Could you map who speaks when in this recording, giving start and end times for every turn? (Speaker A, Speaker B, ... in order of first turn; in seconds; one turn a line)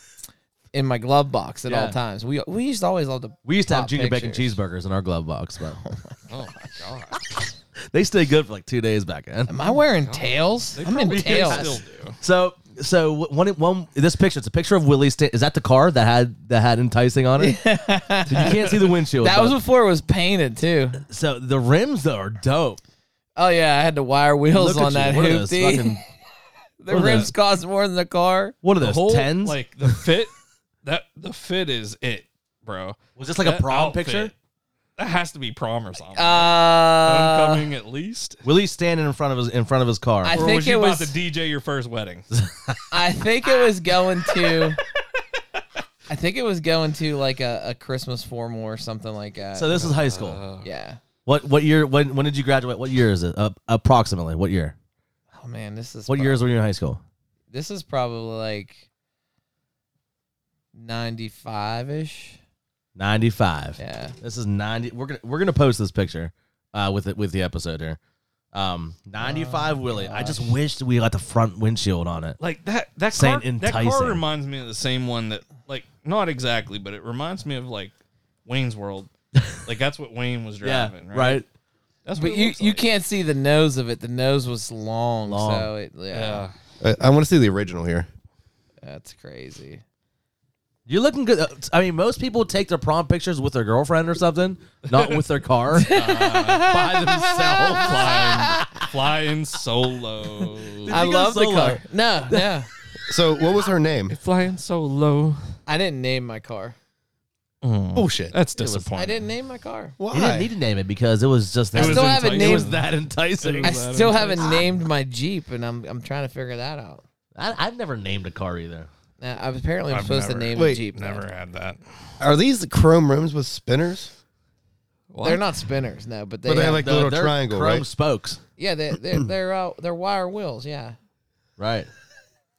Speaker A: 0.7-4.6
Speaker B: 1.7-2.0
Speaker B: 3.5-5.8
Speaker A: 5.8-6.0
Speaker C: 6.3-7.2
Speaker B: 7.9-9.5
Speaker A: 9.5-11.7
Speaker C: 10.1-12.2
Speaker B: 11.0-17.6
Speaker A: 17.4-21.0
Speaker B: 18.3-19.6
Speaker B: 21.1-22.8
Speaker A: 23.4-26.0
Speaker B: 24.5-26.0
Speaker A: 26.8-28.6
Speaker B: 26.9-27.3
Speaker C: 26.9-27.3
Speaker B: 28.6-29.6
Speaker C: 28.8-30.3
Speaker C: 30.8-34.3
Speaker B: 33.2-34.3
Speaker C: 35.0-38.4
Speaker A: 36.1-37.6
Speaker B: 38.4-40.4
Speaker A: 40.2-41.1
Speaker C: 40.3-42.3
Speaker B: 42.3-42.8
Speaker A: 42.9-44.8
Speaker A: 46.1-49.9
Speaker B: 49.5-50.4
Speaker C: 49.7-50.7
Speaker A: 50.6-51.0
Speaker B: 51.2-54.7
Speaker A: 55.3-56.4
Speaker B: 56.1-57.0
Speaker A: 57.5-58.9
Speaker A: 60.7-62.4
Speaker B: 63.0-68.0
Speaker A: 63.8-64.2
Speaker B: 68.5-72.4
Speaker A: 69.2-70.5
Speaker C: 72.4-77.9
Speaker B: 73.1-74.2
Speaker C: 78.5-79.1
Speaker C: 79.6-81.4
Speaker B: 80.6-81.5
Speaker C: 82.0-82.8
Speaker A: 82.2-86.5
Speaker B: 85.2-85.7
Speaker C: 86.1-86.5
Speaker D: 86.8-88.1
Speaker A: 88.8-89.8
Speaker B: 90.9-98.9
Speaker C: 94.9-95.3
Speaker A: 95.7-98.6
Speaker C: 95.8-96.8
Speaker C: 97.8-101.0
Speaker B: 100.8-102.5
Speaker A: 100.9-102.7
Speaker D: 103.1-104.2
Speaker C: 104.1-105.5
Speaker A: 105.7-106.8
Speaker C: 107.6-109.2
Speaker D: 107.9-108.3
Speaker B: 108.6-108.9
Speaker A: 108.9-110.0
Speaker D: 110.0-110.5
Speaker B: 110.1-113.8
Speaker C: 111.7-112.9
Speaker A: 111.7-112.8
Speaker C: 113.4-114.6
Speaker A: 113.6-117.0
Speaker B: 117.3-118.9
Speaker A: 119.2-121.2
Speaker C: 119.9-121.8
Speaker D: 120.5-120.8
Speaker D: 122.2-124.1
Speaker C: 125.1-125.4
Speaker A: 125.2-126.9
Speaker D: 126.4-127.9
Speaker B: 126.8-128.4
Speaker A: 128.6-130.9
Speaker B: 131.6-131.9